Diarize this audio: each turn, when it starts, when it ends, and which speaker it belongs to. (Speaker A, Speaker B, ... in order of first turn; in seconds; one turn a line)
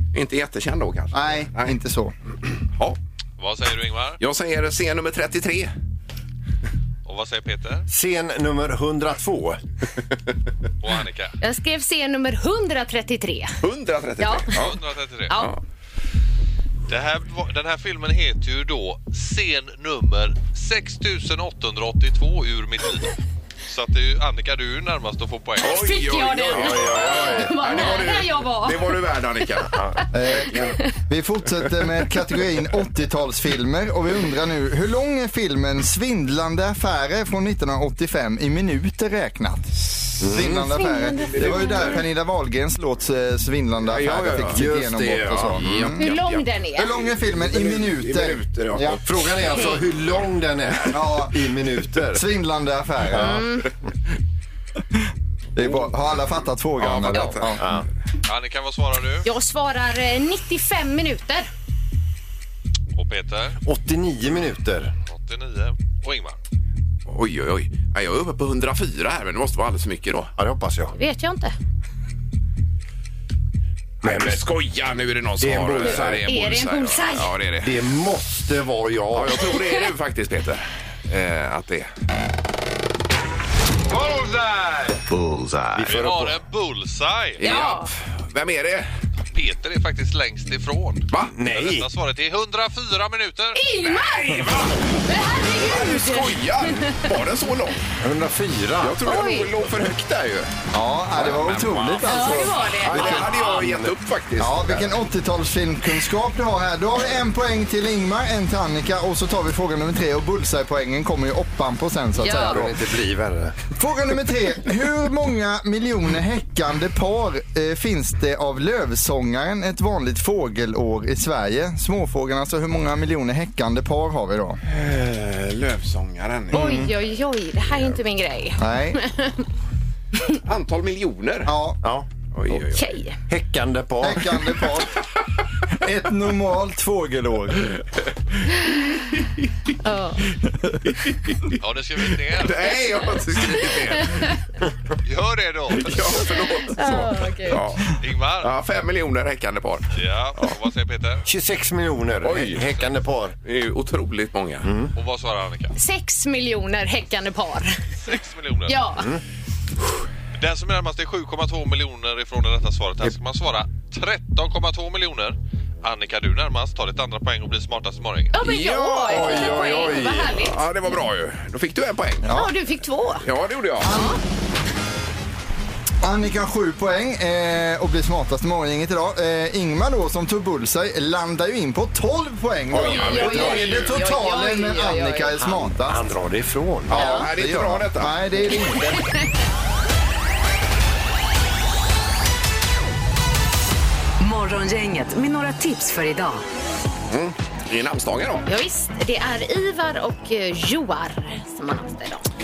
Speaker A: 0.1-1.8
Speaker B: 1.1-2.1
Speaker A: 2.7-3.0
Speaker C: 3.4-4.2
Speaker A: 4.2-5.7
Speaker C: 7.0-7.8
Speaker D: 7.9-9.6
Speaker C: 10.8-11.3
Speaker E: 11.4-13.6
Speaker A: 13.6-14.8
Speaker E: 14.2-14.5
Speaker C: 14.5-15.4
Speaker C: 16.9-25.8
Speaker E: 25.6-28.9
Speaker A: 25.6-29.8
Speaker D: 26.5-27.8
Speaker D: 29.7-30.0
Speaker E: 30.0-30.8
Speaker B: 30.1-30.5
Speaker A: 30.5-30.8
Speaker B: 31.1-46.0
Speaker D: 40.2-40.6
Speaker A: 40.3-40.6
Speaker E: 40.7-42.0
Speaker A: 41.2-41.9
Speaker A: 43.8-44.7
Speaker D: 44.4-45.7
Speaker A: 45.2-46.4
Speaker E: 46.0-47.1
Speaker B: 46.8-49.0
Speaker A: 47.4-49.6
Speaker D: 49.0-52.2
Speaker B: 50.9-51.3
Speaker B: 52.0-53.4
Speaker D: 53.1-53.4
Speaker E: 53.1-53.7
Speaker B: 55.5-57.6
Speaker A: 56.8-57.7
Speaker D: 57.6-57.9
Speaker C: 58.2-59.3
Speaker E: 59.2-61.5
Speaker C: 62.9-63.6
Speaker D: 63.6-64.9
Speaker C: 65.1-66.4
Speaker A: 67.1-70.3
Speaker D: 70.4-70.9
Speaker E: 70.9-71.5
Speaker D: 74.0-74.5
Speaker A: 74.0-77.8
Speaker D: 75.4-76.3
Speaker E: 76.2-77.3
Speaker D: 77.6-79.5
Speaker A: 79.1-81.9
Speaker C: 84.0-85.0
Speaker D: 85.1-86.4
Speaker C: 85.8-87.6
Speaker A: 87.4-88.9
Speaker E: 87.4-87.9
Speaker C: 89.3-93.6
Speaker D: 91.3-91.9
Speaker E: 93.5-97.0
Speaker A: 93.9-97.9
Speaker D: 98.0-99.0
Speaker A: 98.8-100.5
Speaker E: 99.0-99.5
Speaker B: 100.7-103.3
Speaker A: 101.2-104.8
Speaker E: 102.1-103.3
Speaker D: 103.3-104.9
Speaker B: 104.4-112.7
Speaker E: 112.2-112.6
Speaker D: 112.3-113.6
Speaker B: 113.8-124.6
Speaker A: 124.7-126.9
Speaker B: 126.5-126.9
Speaker E: 126.5-129.4
Speaker B: 128.6-129.0
Speaker A: 130.4-131.5
Speaker B: 131.4-131.8
Speaker D: 131.8-132.1
Speaker A: 132.3-132.8
Speaker E: 132.7-133.2
Speaker D: 133.3-134.6
Speaker B: 134.0-135.0
Speaker B: 135.8-137.8
Speaker E: 139.8-140.3
Speaker A: 140.8-141.6
Speaker C: 141.6-142.8
Speaker A: 142.3-144.3
Speaker E: 144.0-144.3
Speaker C: 145.1-146.3
Speaker A: 145.8-150.5
Speaker E: 146.7-147.6
Speaker C: 148.0-148.5
Speaker C: 149.9-151.2
Speaker D: 151.2-153.3
Speaker A: 152.2-152.6
Speaker A: 153.4-154.7
Speaker D: 154.6-154.9
Speaker C: 154.9-155.7
Speaker E: 155.8-157.8
Speaker C: 158.0-158.8
Speaker E: 158.7-159.1
Speaker C: 160.3-168.4
Speaker E: 168.3-170.9
Speaker A: 168.4-172.3
Speaker D: 169.0-170.4
Speaker B: 172.2-172.5
Speaker E: 172.3-173.3
Speaker A: 173.2-174.0
Speaker B: 173.8-174.2
Speaker E: 173.8-174.2
Speaker B: 176.0-186.0
Speaker A: 182.7-183.9
Speaker E: 182.8-185.4
Speaker D: 185.4-187.2
Speaker A: 186.9-188.7
Speaker B: 186.9-189.1
Speaker E: 186.9-187.2
Speaker F: 194.2-196.4
Speaker A: 197.1-198.4
Speaker E: 198.4-202.2